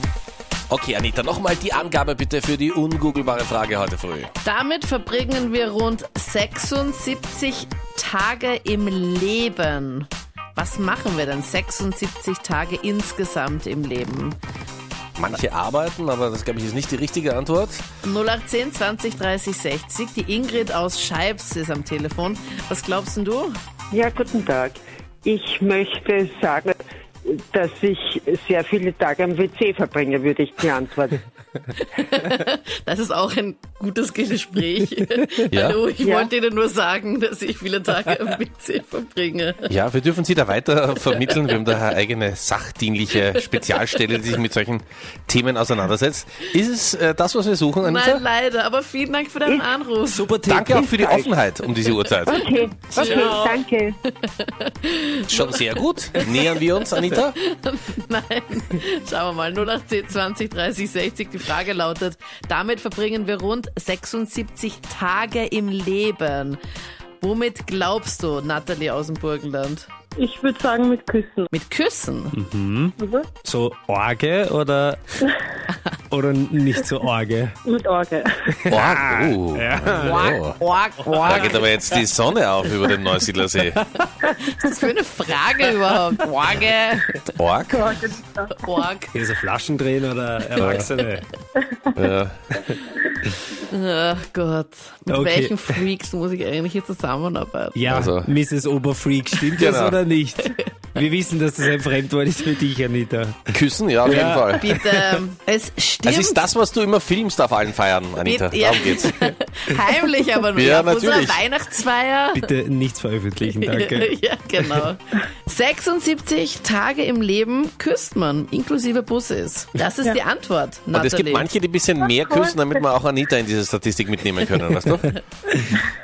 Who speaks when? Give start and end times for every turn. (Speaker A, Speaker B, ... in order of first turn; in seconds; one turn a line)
Speaker A: 0.7-4.3
Speaker B: 4.4-14.4
Speaker A: 15.2-17.8
Speaker B: 18.0-23.5
Speaker C: 23.9-31.2
Speaker B: 31.8-39.7
Speaker A: 35.5-35.8
Speaker A: 39.7-48.2
Speaker B: 47.8-50.3
Speaker D: 50.1-50.9
Speaker A: 50.4-53.4
Speaker C: 50.9-51.3
Speaker C: 52.3-54.0
Speaker B: 52.9-53.5
Speaker D: 52.9-53.6
Speaker B: 54.1-66.6
Speaker A: 55.3-57.4
Speaker B: 67.2-69.9
Speaker E: 70.2-71.5
Speaker B: 71.5-72.4
Speaker D: 72.3-75.0
Speaker E: 73.0-73.3
Speaker D: 76.1-77.5
Speaker E: 77.6-78.5
Speaker D: 78.5-80.3
Speaker A: 78.7-80.6
Speaker B: 80.0-82.0
Speaker A: 81.2-83.8
Speaker B: 84.0-87.3
Speaker A: 87.4-87.8
Speaker E: 87.7-88.5
Speaker B: 88.4-89.1
Speaker D: 89.1-91.2
Speaker B: 90.5-91.2
Speaker A: 90.6-90.9
Speaker A: 91.9-92.4
Speaker B: 93.0-97.8
Speaker D: 95.1-95.5
Speaker D: 97.8-103.5
Speaker A: 97.9-98.3
Speaker A: 99.6-100.0
Speaker B: 100.4-100.7
Speaker A: 103.5-104.7
Speaker D: 104.0-104.5
Speaker B: 104.5-106.4
Speaker A: 106.0-109.3
Speaker B: 108.2-112.5
Speaker A: 110.5-111.4
Speaker D: 112.3-114.1
Speaker B: 113.4-121.5
Speaker A: 120.9-125.1
Speaker E: 122.1-122.5